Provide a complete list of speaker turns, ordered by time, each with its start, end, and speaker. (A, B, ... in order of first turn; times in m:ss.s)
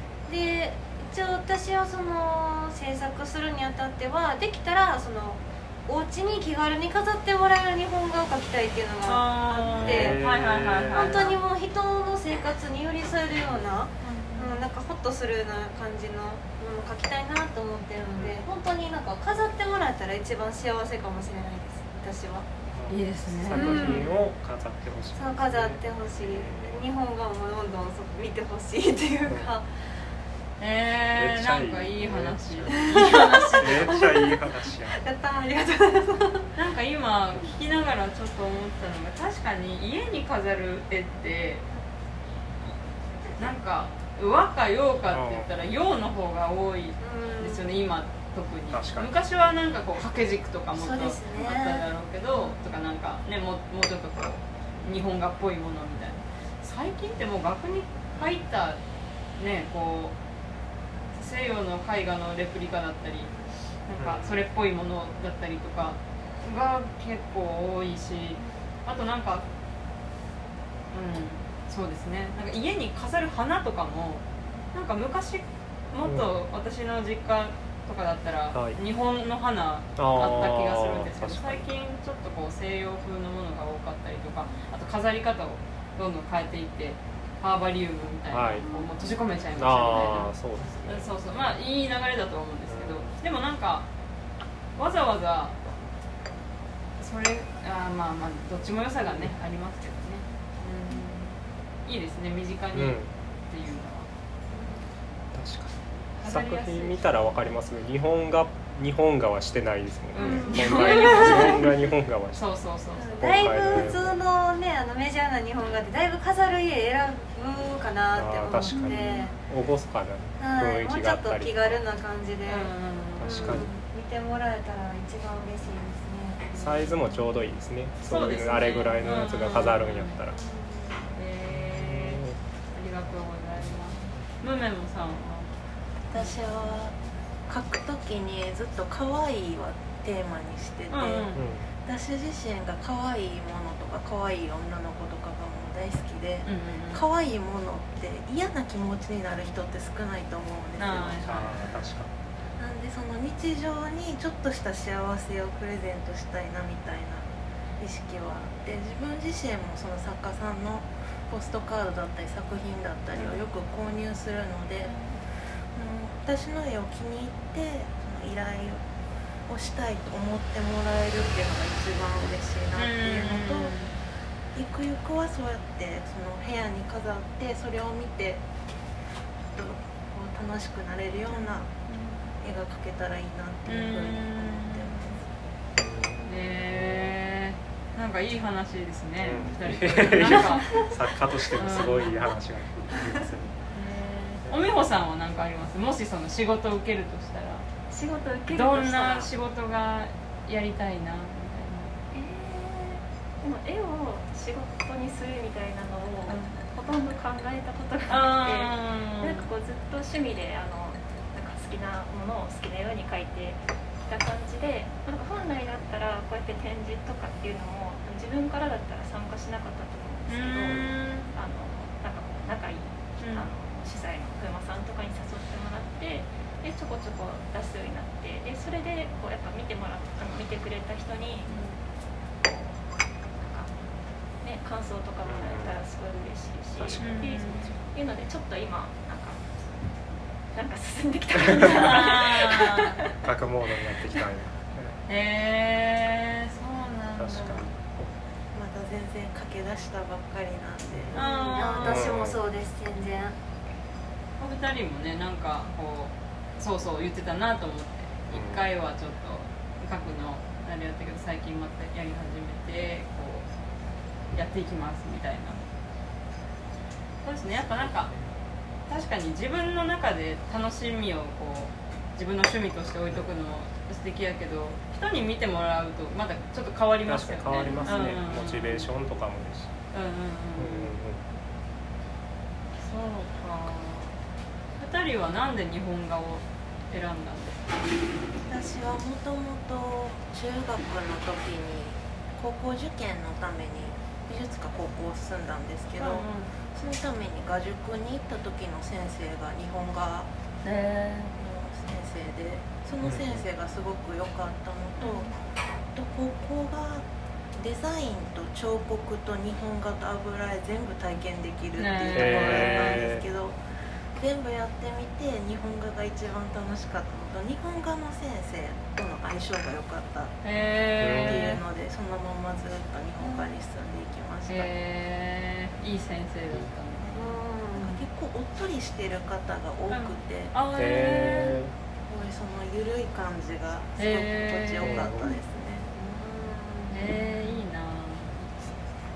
0:00.3-0:10.2 A
0:09.0-0:11.4 B
0:09.7-0:11.4 C
0:10.9-0:22.5 A
0:13.4-0:13.7 C
0:14.0-0:14.6 B
0:18.2-0:18.4 C
0:22.7-0:26.8 C
0:22.9-0:24.1 B
0:23.5-0:24.1 A
0:25.2-0:29.7 A
0:30.6-0:34.0 B
0:31.2-0:33.0 C
0:32.7-0:36.5 A
0:33.6-0:35.0 C
0:36.6-0:41.6 B
0:43.4-0:58.8 B
0:45.1-0:45.5 C
0:47.0-0:47.6 A
0:48.7-0:49.1 C
0:50.7-0:51.8 A
0:59.4-1:00.1 B
1:01.1-1:03.3 B
1:03.3-1:03.5 A
1:03.8-1:09.4 B
1:04.0-1:04.4 C
1:08.4-1:08.6 A
1:10.9-1:33.8 B
1:16.0-1:16.3 C
1:20.0-1:21.7 C
1:28.3-1:28.6 C
1:28.6-1:28.9 A
1:29.6-1:31.1 C
1:32.7-1:33.1 C
1:34.8-1:35.6 B
1:37.0-1:44.1 B
1:42.7-1:43.1 C
1:44.5-1:44.9 A
1:45.3-1:52.4 C
1:46.2-1:47.2 B
1:50.1-1:53.3 B
1:50.2-1:51.5 A
1:53.0-1:59.3 A
1:53.2-1:54.2 C
1:58.1-2:01.8 C
2:00.4-2:02.7 A
2:02.5-2:03.7 B
2:03.2-2:03.7 C
2:03.2-2:06.9 A
2:06.5-2:10.4 C
2:08.0-2:10.2 B
2:10.3-2:11.1 A
2:11.1-2:15.5 B
2:11.5-2:12.4 C
2:16.1-2:16.4 B
2:16.1-2:16.9 D
2:17.5-2:31.4 D
2:20.9-2:21.4 B
2:21.4-2:21.7 C
2:26.4-2:27.0 B
2:30.8-2:31.5 B
2:31.2-2:32.1 C
2:32.6-2:44.9 D
2:44.9-2:45.2 B
2:45.7-2:48.8 D
2:49.4-2:53.7 D
2:52.7-2:53.9 B
2:54.5-2:58.4 D
2:59.5-3:01.7 D
3:01.9-3:02.3 E
3:02.4-3:05.3 D
3:03.6-3:05.2 B
3:05.8-3:07.1 C
3:06.2-3:10.8 B
3:09.2-3:13.6 C
3:11.6-3:12.2 B
3:13.7-3:17.6 B
3:17.9-3:19.3 E
3:18.5-3:22.0 B
3:22.1-3:51.6 E
3:28.1-3:29.5 B
3:40.3-3:41.3 B
3:43.2-3:43.5 B
3:51.5-3:51.8 B
3:52.4-3:52.7 E
3:53.3-3:53.7 E
3:54.4-4:00.0 E
3:55.2-3:55.8 C
3:56.8-3:57.8 C
3:57.0-3:57.7 B
4:00.5-4:03.2 E
4:01.4-4:02.0 C
4:01.6-4:03.0 B
4:03.1-4:05.0 C
4:05.1-4:07.6 B
4:07.2-4:08.1 C
4:08.5-4:11.1 D
4:11.1-4:12.0 B
4:11.1-4:13.4 A
4:11.8-4:12.4 C
4:14.4-4:23.5 B
4:18.3-4:18.6 C
4:24.3-4:25.6 B
4:27.2-4:28.1 B
4:27.7-4:28.3 C
4:28.9-4:38.9 B
4:37.0-4:39.7 C
4:39.9-4:41.0 B
4:40.6-4:41.2 C
4:42.8-4:44.2 B
4:44.8-4:47.8 B
4:48.5-5:00.3 D
4:56.0-4:56.5 B
5:00.6-5:01.4 B
5:01.3-5:05.4 D
5:03.0-5:03.4 C
5:05.0-5:05.3 B
5:05.9-5:20.3 D
5:11.8-5:13.0 B
5:12.1-5:13.2 C
5:20.4-5:21.6 B
5:21.0-5:21.6 C
5:21.1-5:24.7 D
5:23.2-5:23.5 A
5:24.5-5:27.3 B
5:27.0-5:30.5 D
5:27.1-5:28.0 A
5:29.9-5:31.6 B
5:30.7-5:31.7 C
5:32.1-5:35.9 D
5:34.0-5:35.1 B
5:34.8-5:35.2 C
5:35.2-5:37.6 A
5:36.9-5:38.5 B